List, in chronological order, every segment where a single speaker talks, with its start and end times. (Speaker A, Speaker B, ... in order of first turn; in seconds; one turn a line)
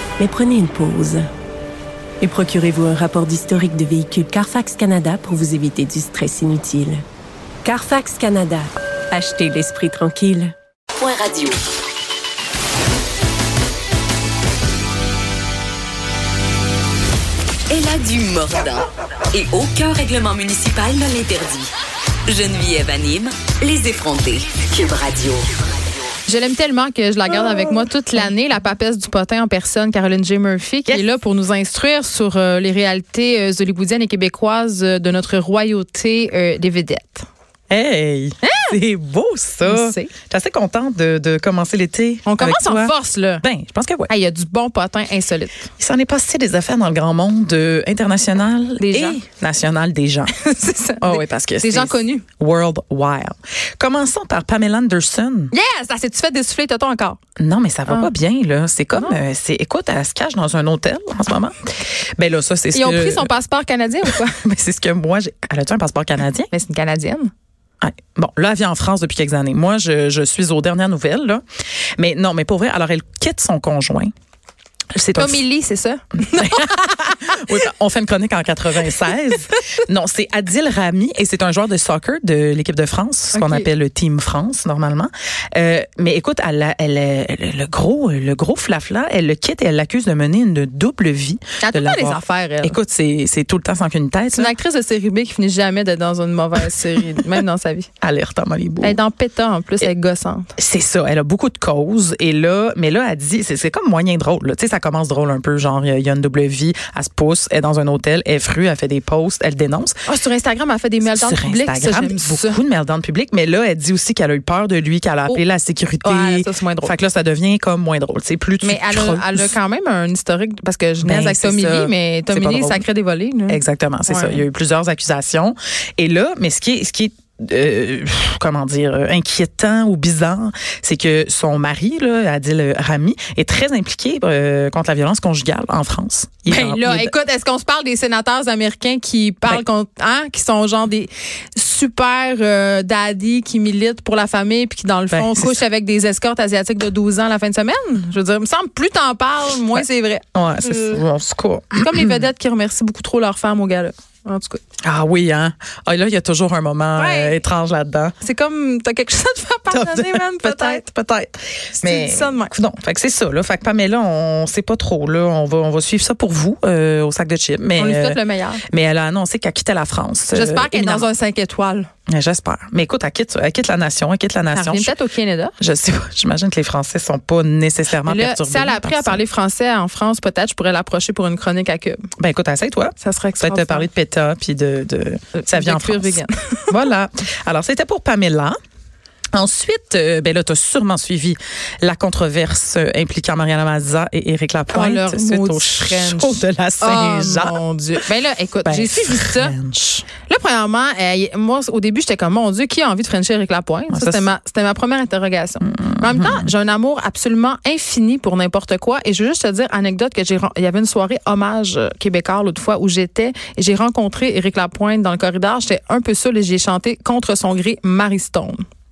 Speaker A: 0.2-1.2
Speaker A: 2.2-7.0
Speaker A: 7.6-10.5
Speaker B: 11.0-11.6
Speaker B: 17.7-21.7
Speaker B: 22.2-25.4
Speaker C: 26.2-37.3
Speaker D: 37.7-44.1
Speaker C: 38.4-38.8
Speaker C: 39.6-40.1
Speaker C: 42.2-43.4
Speaker C: 44.1-45.7
Speaker D: 45.8-50.3
Speaker C: 48.8-49.2
Speaker C: 50.3-52.2
Speaker D: 51.0-55.5
Speaker C: 55.5-57.2
Speaker D: 57.4-63.3
Speaker C: 62.7-64.4
Speaker D: 64.0-66.5
Speaker C: 66.5-67.3
Speaker D: 67.8-71.4
Speaker D: 72.0-74.1
Speaker D: 74.9-75.4
Speaker C: 75.2-77.4
Speaker D: 76.3-94.5
Speaker C: 83.3-83.7
Speaker C: 91.6-92.8
Speaker C: 94.3-97.9
Speaker D: 98.0-99.0
Speaker C: 98.8-100.5
Speaker D: 100.6-109.9
Speaker C: 110.0-112.6
Speaker D: 111.0-119.5
Speaker C: 116.0-116.9
Speaker C: 118.6-124.4
Speaker D: 121.0-122.8
Speaker D: 123.5-137.1
Speaker C: 136.4-151.0
Speaker D: 145.1-145.6
Speaker D: 150.3-152.2
Speaker C: 151.8-154.6
Speaker D: 154.8-158.1
Speaker C: 156.9-157.4
Speaker C: 158.2-160.8
Speaker D: 159.7-171.1
Speaker C: 161.8-162.5
Speaker C: 167.8-168.6
Speaker C: 170.3-171.9
Speaker D: 172.1-174.9
Speaker C: 174.5-175.5
Speaker D: 175.6-179.2
Speaker C: 178.0-182.1
Speaker D: 182.2-188.6
Speaker C: 183.0-183.9
Speaker C: 185.3-186.8
Speaker D: 189.3-197.6
Speaker C: 194.7-199.6
Speaker D: 198.6-200.1
Speaker C: 200.2-218.6
Speaker D: 203.9-204.3
Speaker D: 205.6-206.5